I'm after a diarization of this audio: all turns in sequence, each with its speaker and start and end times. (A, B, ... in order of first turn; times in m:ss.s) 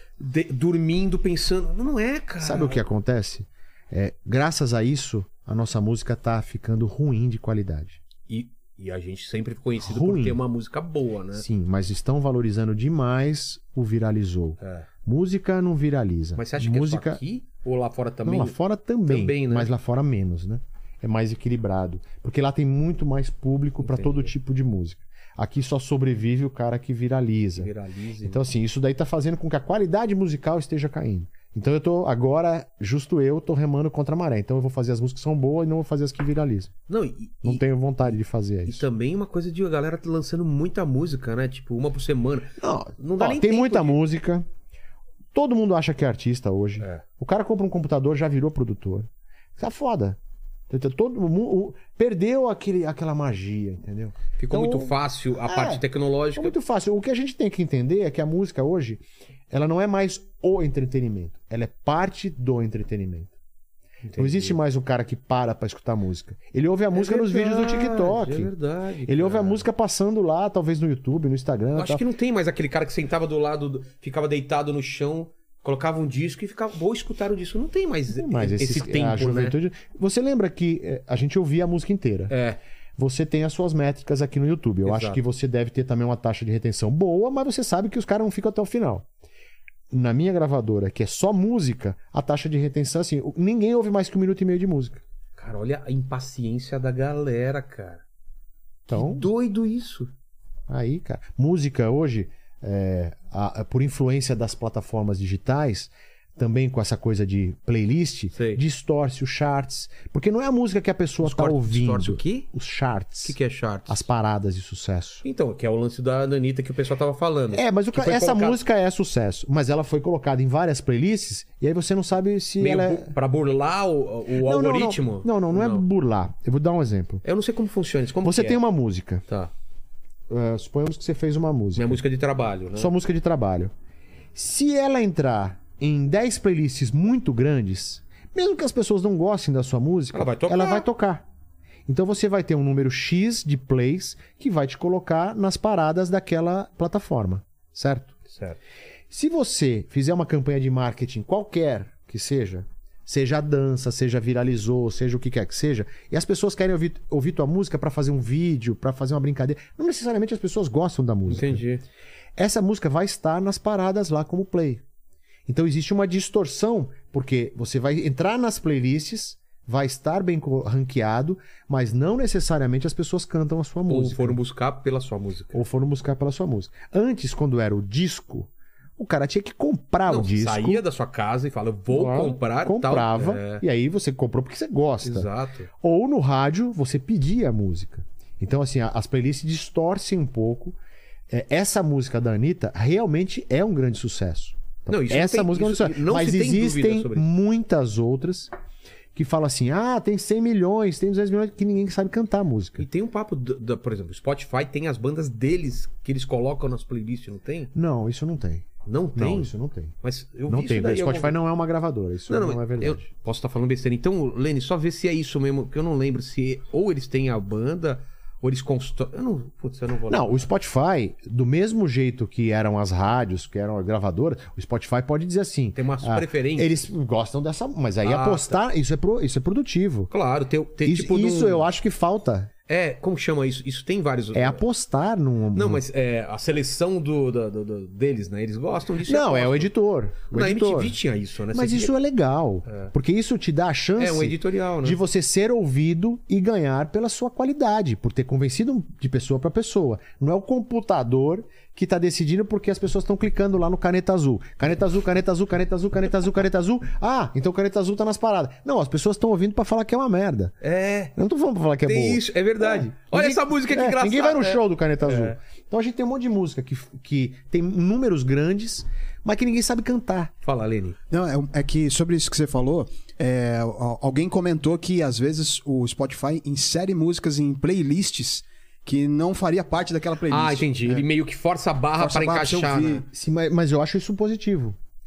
0:00.2-0:02.8 A
0:02.4-0:08.0 B
0:08.3-0:11.4 A
0:09.8-0:10.4 B
0:11.3-0:17.2 B
0:14.6-0:14.9 A
0:16.4-0:18.6 A
0:18.2-0:27.7 B
0:19.1-0:19.7 A
0:23.8-0:24.3 A
0:27.6-0:28.4 A
0:28.2-0:36.7 B
0:36.9-0:37.6 A
0:37.4-0:38.8 B
0:38.6-0:44.0 A
0:42.6-0:44.4 B
0:45.3-0:50.2 B
0:50.7-0:54.9 B
0:54.4-0:56.5 A
0:55.4-0:55.8 B
0:56.3-1:03.3 B
1:04.0-1:04.6 A
1:04.2-1:08.5 B
1:06.9-1:09.6 A
1:09.0-1:12.0 B
1:11.7-1:19.6 A
1:18.1-1:22.3 B
1:22.3-1:22.6 A
1:23.0-1:29.1 B
1:24.8-1:25.2 A
1:29.9-1:35.0 B
1:35.4-1:38.0 A
1:38.9-1:39.3 B
1:38.9-1:40.1 A
1:40.7-1:53.3 B
1:48.3-1:48.6 A
1:51.2-1:52.5 A
1:53.2-1:54.1 A
1:53.9-1:55.2 B
1:55.2-1:58.6 A
1:57.5-2:03.1 B
2:02.6-2:05.8 A
2:04.4-2:07.2 B
2:07.2-2:08.6 A
2:08.2-2:09.2 B
2:10.3-2:12.0 B
2:11.8-2:12.9 A
2:12.7-2:13.7 B
2:14.3-2:21.2 B
2:20.1-2:20.9 A
2:21.9-2:28.2 B
2:28.3-2:28.6 A
2:29.1-2:41.6 B
2:41.3-2:41.8 A
2:42.4-2:44.8 B
2:45.5-2:54.4 B
2:53.9-2:55.6 A
2:55.5-3:00.8 B
3:00.1-3:03.6 A
3:01.9-3:05.3 B
3:05.0-3:05.7 A
3:05.8-3:10.8 B
3:11.3-3:18.5 B
3:14.9-3:17.2 A
3:19.1-3:22.8 B
3:22.8-3:27.7 A
3:27.7-3:29.9 B
3:28.8-3:31.4 A
3:30.5-3:33.0 B
3:32.3-3:40.4 A
3:40.1-3:50.1 B
3:45.7-3:46.9 A
3:48.0-3:48.6 A
3:50.1-3:51.6 A
3:50.8-3:52.5 B
3:52.7-3:54.6 A
3:54.3-3:55.8 B
3:55.5-3:59.7 A
3:59.0-4:01.0 B
4:00.3-4:01.9 A
4:01.5-4:20.5 B
4:04.0-4:05.0 A
4:20.6-4:21.1 A
4:21.1-4:30.3 B
4:21.8-4:25.4 A
4:30.4-4:31.0 A
4:31.1-4:41.0 C
4:40.3-4:43.0 A
4:42.0-4:43.0 C
4:43.1-4:44.8 B